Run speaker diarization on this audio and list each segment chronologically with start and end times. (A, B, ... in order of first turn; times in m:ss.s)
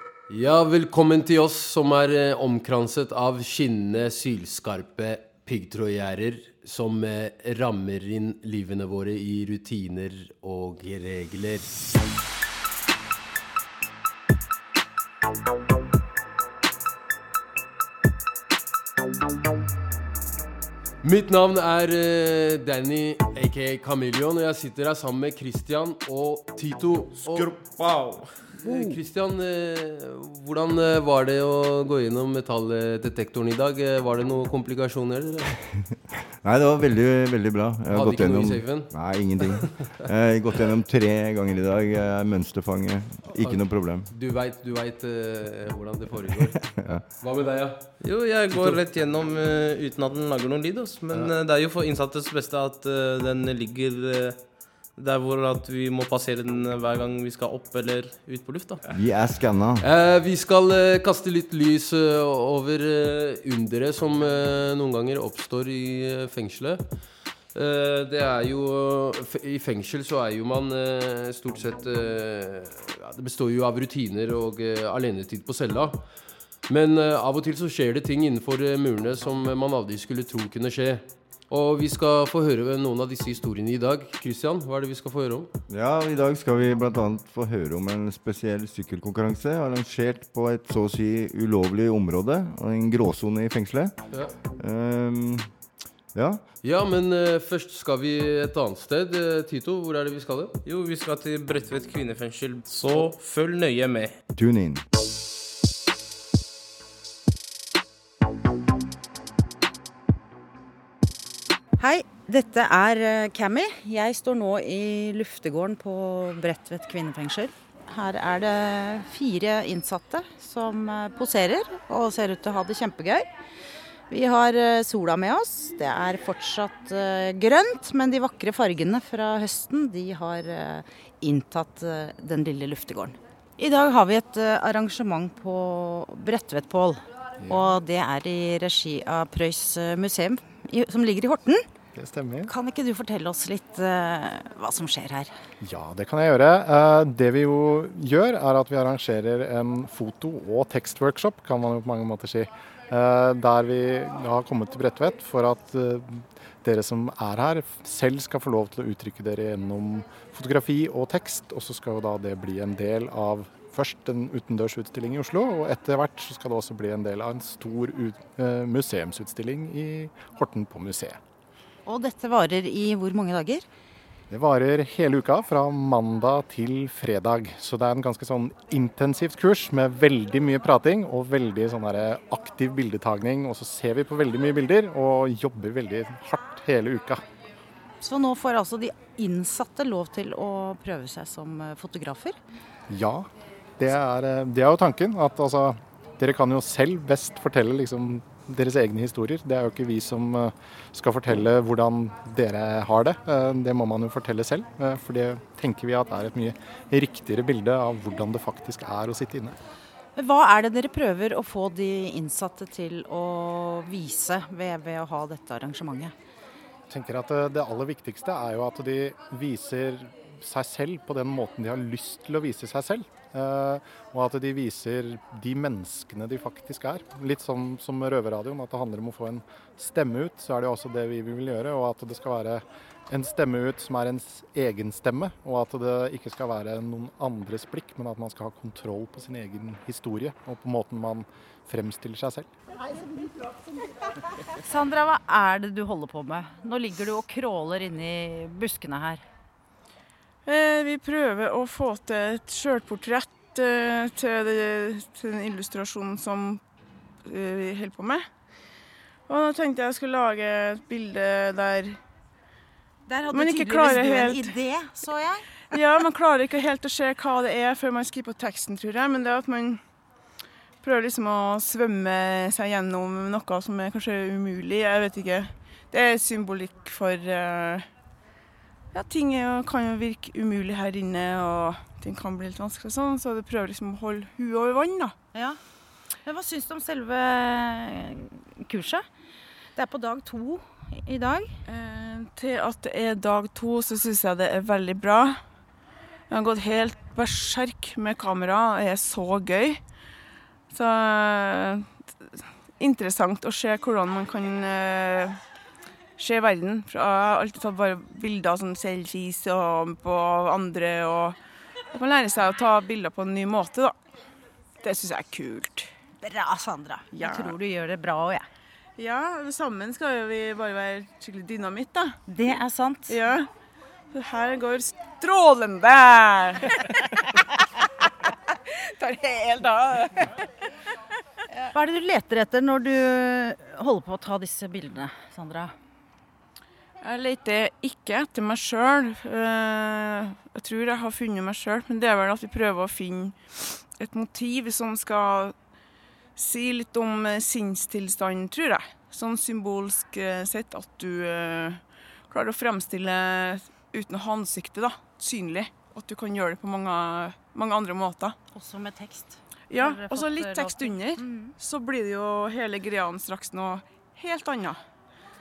0:00.3-0:11.7 A
0:21.0-0:27.5 A
0:28.5-0:35.5 A
0:36.4-0:44.1 B
0:37.9-0:38.9 A
0:43.3-0:46.6 A
0:46.3-0:47.1 B
0:47.2-0:47.9 A
0:48.0-0:54.4 C
0:48.5-0:48.8 A
0:55.0-0:58.8 C
0:58.9-0:59.8 B
0:59.8-1:06.8 A
1:07.5-1:16.0 A
1:16.7-1:25.5 A
1:25.7-1:34.0 B
1:34.6-1:35.5 B
1:36.1-1:36.4 B
1:36.6-1:40.6 A
1:40.6-1:44.2 C
1:44.3-1:44.8 B
1:51.8-2:03.3 D
2:04.1-2:21.7 D
2:17.4-2:17.8 E
2:21.9-2:22.5 E
2:22.5-2:25.3 D
2:25.6-2:51.2 E
2:51.8-2:53.7 D
2:54.3-3:07.2 E
3:08.0-3:12.4 D
3:12.9-3:29.6 E
3:30.2-3:36.1 D
3:36.9-4:02.5 E
4:04.6-4:09.2 D
4:10.4-4:16.6 F
4:17.2-4:18.2 F
4:19.3-4:22.0 F
4:23.1-4:25.8 D
4:23.3-4:24.5 F
4:25.7-4:29.8 F
4:30.8-4:37.9 F
4:38.9-4:45.1 F
4:45.3-4:45.6 D
4:46.2-4:49.1 D
4:49.7-4:51.5 D
4:51.6-4:55.4 F
4:56.3-4:59.8 F
5:00.7-5:05.4 F
5:06.2-5:11.4 F
5:11.9-5:14.0 F
5:14.8-5:15.9 F
5:16.2-5:18.4 D
5:17.1-5:17.6 F
5:19.0-5:22.2 F
5:22.3-5:23.2 D
5:23.1-5:23.5 F
5:24.1-5:26.9 F
5:28.9-5:30.3 F
5:31.7-5:35.7 D
5:37.0-5:45.6 F
5:46.4-5:58.4 F
5:58.5-6:01.5 D
5:59.7-6:04.8 F